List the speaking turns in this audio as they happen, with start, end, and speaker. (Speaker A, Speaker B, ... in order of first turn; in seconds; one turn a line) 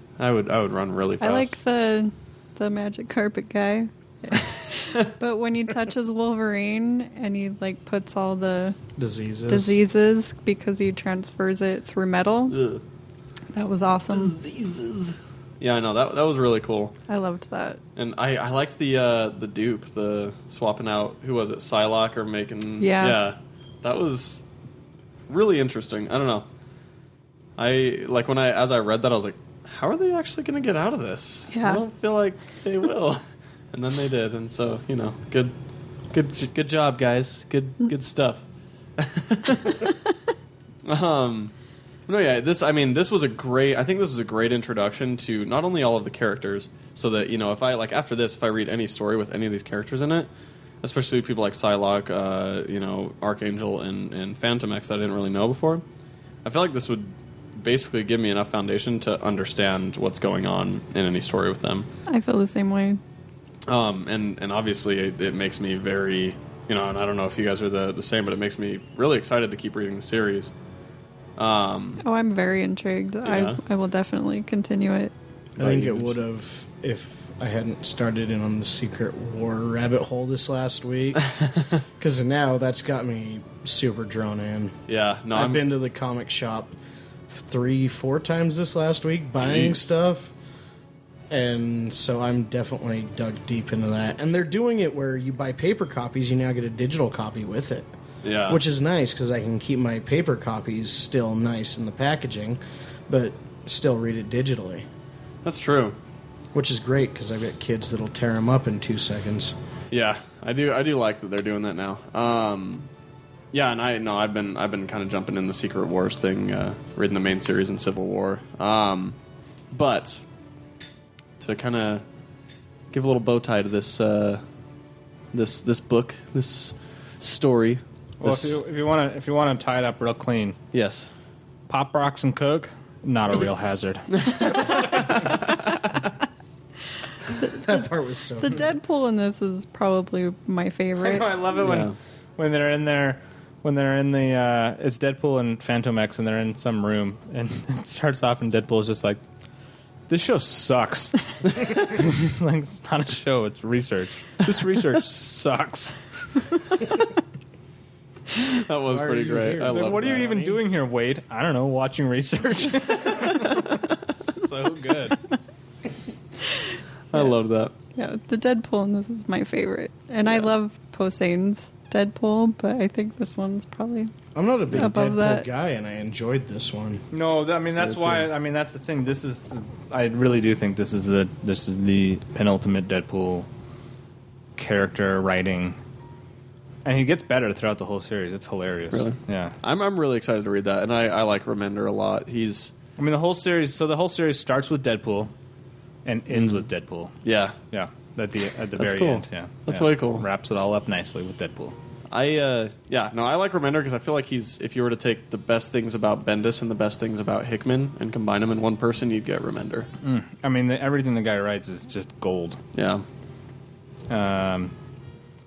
Speaker A: 0.2-1.5
Speaker B: 1.2-8.8
Speaker C: 9.0-9.8
Speaker B: 9.5-12.6
Speaker A: 12.5-12.8
Speaker B: 13.5-14.4
Speaker A: 14.1-16.9
Speaker B: 17.1-17.8
Speaker A: 17.9-24.4
Speaker B: 22.8-23.2
Speaker A: 25.3-26.5
Speaker A: 27.6-35.5
Speaker B: 31.5-31.8
Speaker A: 36.1-38.4
Speaker A: 39.0-39.9
Speaker A: 40.8-41.5
Speaker A: 42.1-50.3
Speaker A: 50.8-55.8
Speaker A: 56.4-61.9
Speaker B: 62.1-63.0
Speaker A: 63.7-70.5
Speaker A: 71.4-72.0
Speaker B: 72.0-75.1
Speaker A: 73.2-73.6
Speaker A: 75.5-76.1
Speaker C: 75.6-81.2
Speaker A: 81.4-81.7
Speaker C: 82.0-84.8
Speaker A: 84.9-85.6
Speaker C: 85.3-86.7
Speaker C: 87.3-90.3
Speaker A: 89.4-89.7
Speaker C: 91.3-97.9
Speaker A: 98.2-98.6
Speaker C: 98.5-104.8
Speaker A: 105.4-106.0
Speaker C: 106.5-109.5
Speaker A: 109.9-112.9
Speaker A: 113.5-119.2
Speaker A: 119.7-120.2
Speaker A: 121.4-122.0
Speaker A: 122.9-124.4
Speaker A: 125.3-128.6
Speaker D: 128.2-130.6
Speaker A: 130.7-131.1
Speaker D: 131.7-134.4
Speaker A: 134.2-135.9
Speaker B: 137.4-137.7
Speaker C: 137.6-138.7
Speaker B: 138.4-141.3
Speaker A: 141.0-141.9
Speaker D: 141.5-149.2
Speaker D: 150.1-156.0
Speaker A: 158.3-160.3
Speaker C: 158.9-160.6
Speaker D: 159.7-165.2
Speaker A: 163.4-163.8
Speaker A: 167.1-167.7
Speaker B: 167.9-174.1
Speaker C: 174.3-177.0
Speaker B: 174.7-175.4
Speaker D: 177.1-183.5
Speaker A: 177.8-178.2
Speaker D: 184.6-185.8
Speaker D: 186.8-189.6
Speaker A: 188.9-192.7
Speaker D: 193.0-195.3
Speaker D: 196.0-197.2
Speaker A: 196.3-196.6
Speaker A: 197.2-197.6
Speaker D: 197.7-201.7
Speaker A: 198.8-200.2
Speaker A: 202.1-209.9
Speaker D: 210.0-212.6
Speaker A: 212.7-213.0
Speaker D: 214.1-214.7